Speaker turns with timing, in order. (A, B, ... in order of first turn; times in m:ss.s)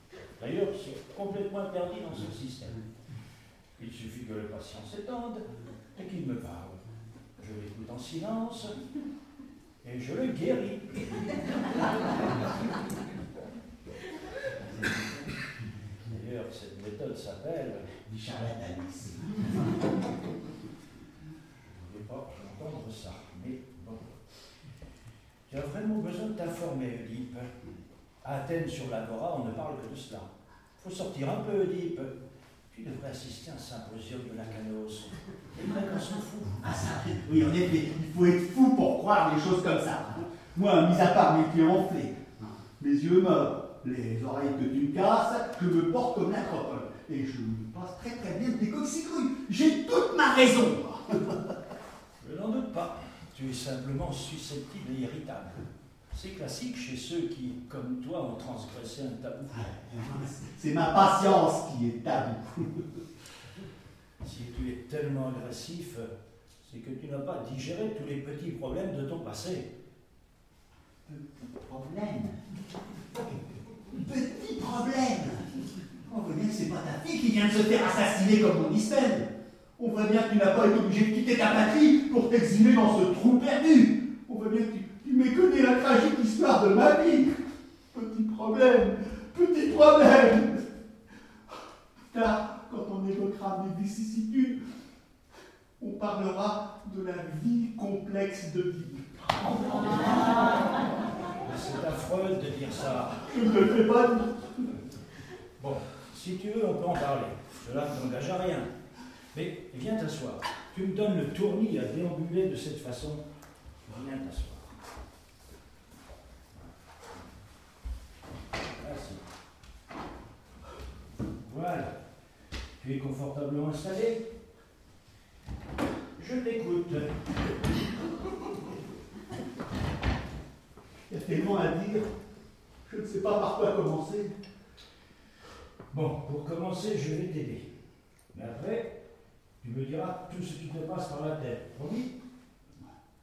0:00.4-0:02.8 A
0:03.8-0:06.8 A
0:07.4-0:08.8 A
0:09.8-0:11.4 A
0:14.7-0:15.0 B
0:16.1-0:18.0 A
0:18.0-0:19.6 B
0:21.7-0:24.2 A
0:25.5-0:27.5 A
0:28.2-0:32.2 A
0:32.7-0:36.7 A
0:36.6-0:51.6 B
0:52.2-0:59.7 A
0:59.5-1:02.9 B
1:04.2-1:06.1 A
1:06.6-1:09.7 A
1:11.0-1:12.4 B
1:13.9-1:15.5 B
1:16.0-1:27.4 B
1:27.9-1:30.6 B
1:32.1-1:34.6 B
1:35.8-1:40.1 B
1:41.4-1:43.4 A
1:43.3-1:44.7 B
1:45.6-1:48.7 A
1:49.3-1:53.2 A
1:53.8-1:54.8 A
1:58.7-1:59.2 A
2:01.4-2:02.0 A
2:02.8-2:04.2 A
2:06.2-2:07.2 A
2:11.1-2:12.1 B
2:12.8-2:14.3 B
2:15.9-2:17.7 A
2:18.3-2:18.9 A
2:19.6-2:22.2 A